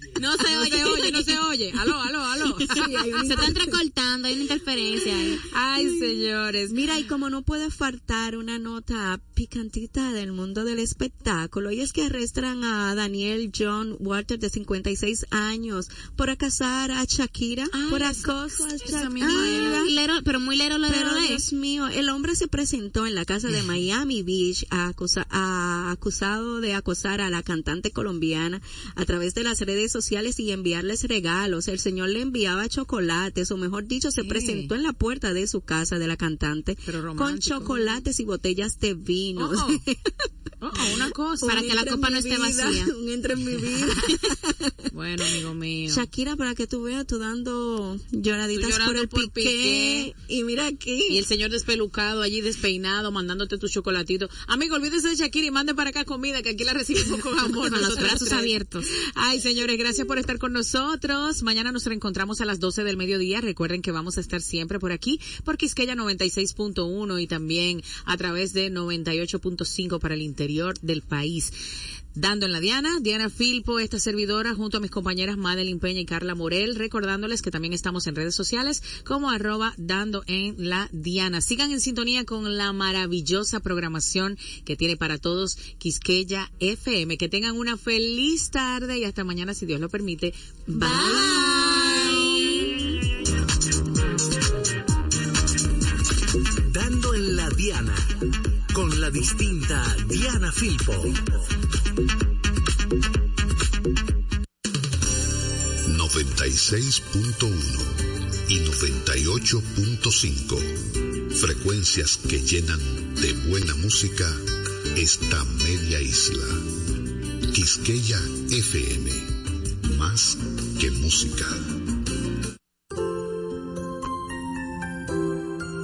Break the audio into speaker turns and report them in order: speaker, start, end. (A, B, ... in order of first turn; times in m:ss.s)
0:00.2-0:01.3 A
0:00.3-0:03.5 B
0:00.4-0:01.1 C
0:02.6-0:03.7 C
0:03.2-0:05.4 A
0:05.0-0:19.9 C
0:05.4-0:06.8 B
0:17.7-0:19.9 B
0:19.2-0:21.4 A
0:20.9-0:40.3 C
0:34.2-0:34.7 B
0:36.8-0:38.0 B
0:39.4-0:39.8 B
0:40.6-0:41.7 B
0:41.4-0:42.9 A
0:41.4-0:44.9 C
0:44.9-0:46.1 B
0:45.9-0:51.2 C
0:48.5-0:50.1 B
0:51.1-1:11.5 B
0:57.6-0:58.9 A
1:12.1-1:32.0 B
1:30.7-1:32.8 A
1:30.8-1:31.9 C
1:36.6-1:41.4 D
1:45.8-1:50.7 E
1:51.3-1:56.6 E
1:57.5-2:01.7 E